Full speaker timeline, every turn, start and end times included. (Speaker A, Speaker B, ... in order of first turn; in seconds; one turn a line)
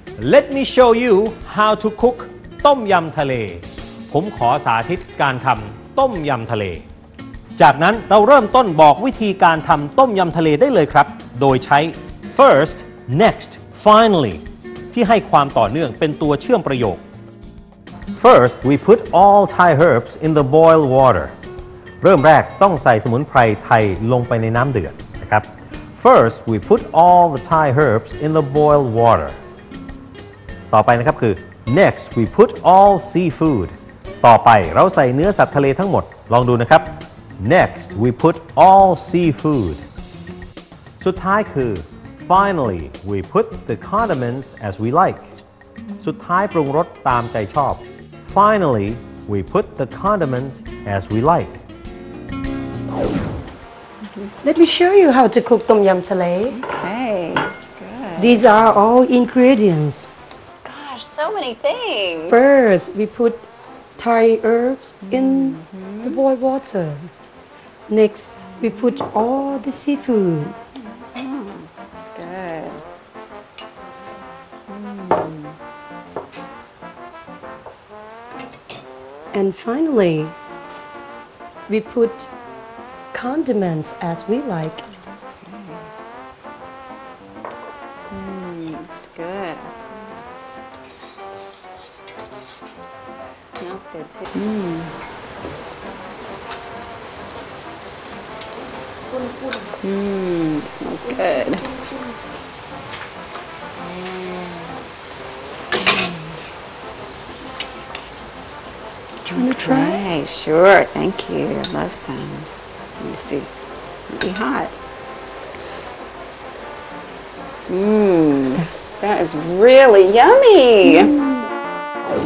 Speaker A: 0.2-6.8
Speaker A: 7.6-14.4
Speaker A: 14.9-17.0
Speaker A: 18.2-21.3
Speaker A: 22.0-25.4
Speaker A: 26.0-29.4
Speaker A: 30.7-39.8
Speaker A: 41.0-45.3
Speaker A: 46.0-51.6
Speaker B: 54.4-56.6
Speaker C: 56.5-58.4
Speaker B: 58.2-60.1
Speaker C: 60.6-62.6
Speaker B: 62.3-67.1
Speaker C: 65.1-66.2
Speaker B: 67.9-70.5
Speaker C: 68.6-69.0
Speaker C: 70.8-72.8
Speaker C: 74.7-75.5
Speaker B: 79.3-80.3
Speaker B: 81.7-82.3
Speaker B: 83.1-84.8
Speaker C: 85.4-85.9
Speaker C: 88.1-90.2
Speaker C: 93.4-95.0
Speaker C: 99.8-101.7
Speaker C: 104.0-104.4
Speaker C: 105.8-106.3
Speaker B: 109.2-110.0
Speaker C: 109.3-113.5
Speaker C: 114.1-114.8
Speaker C: 117.7-121.3